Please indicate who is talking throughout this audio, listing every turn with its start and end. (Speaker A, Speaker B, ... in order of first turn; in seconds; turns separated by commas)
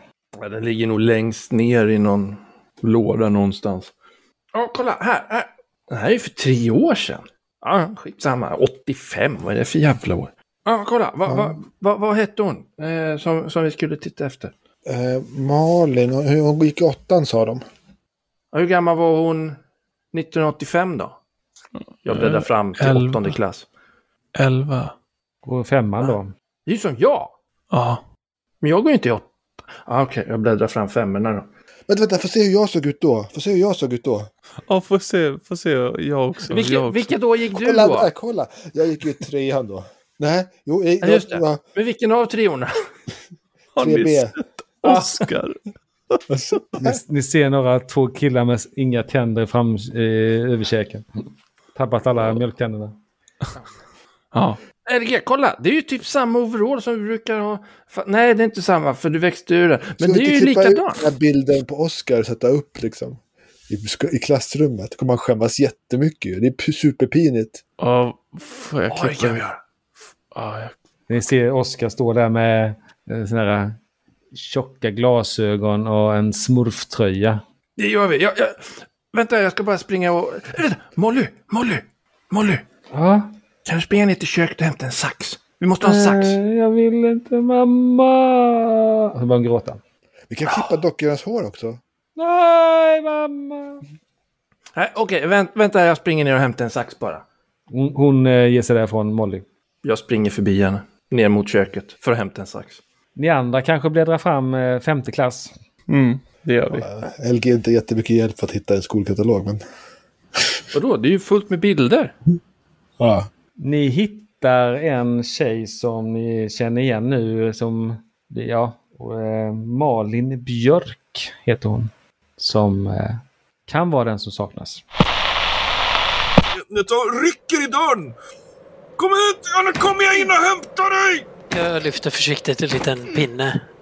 Speaker A: 0.3-3.9, Speaker A: 4.5-14.5, Speaker B: 11.3-11.6, Speaker B: 14.9-17.6, Speaker A: 18.5-19.6, Speaker A: 20.1-21.2, Speaker A: 22.1-23.7, Speaker C: 22.1-23.4, Speaker C: 24.4-24.9, Speaker D: 25.4-26.3, Speaker A: 26.7-27.4, Speaker C: 27.7-28.0, Speaker A: 28.6-31.5, Speaker B: 31.9-34.3, Speaker C: 34.7-37.1, Speaker A: 36.5-38.1, Speaker B: 37.5-41.6, Speaker A: 41.0-42.8, Speaker C: 43.8-45.6, Speaker B: 43.8-44.4, Speaker B: 46.3-47.0, Speaker D: 46.8-51.1, Speaker D: 51.8-53.0, Speaker A: 54.3-61.0, Speaker B: 60.0-67.6, Speaker C: 67.8-69.5, Speaker A: 68.9-69.6, Speaker C: 70.3-70.8, Speaker D: 71.1-73.8, Speaker D: 74.3-77.4, Speaker A: 77.8-82.6, Speaker D: 82.9-83.3, Speaker A: 83.7-86.4, Speaker D: 85.8-89.8, Speaker B: 90.3-91.8, Speaker D: 92.2-93.8, Speaker A: 94.8-97.2, Speaker D: 97.7-99.5, Speaker A: 99.8-102.8, Speaker D: 103.2-105.5, Speaker C: 105.9-106.9, Speaker B: 106.7-109.6, Speaker A: 110.7-112.1, Speaker B: 113.0-113.3, Speaker D: 113.6-124.8, Speaker E: 126.5-128.2, Speaker E: 129.0-131.3, Speaker F: 131.5-133.6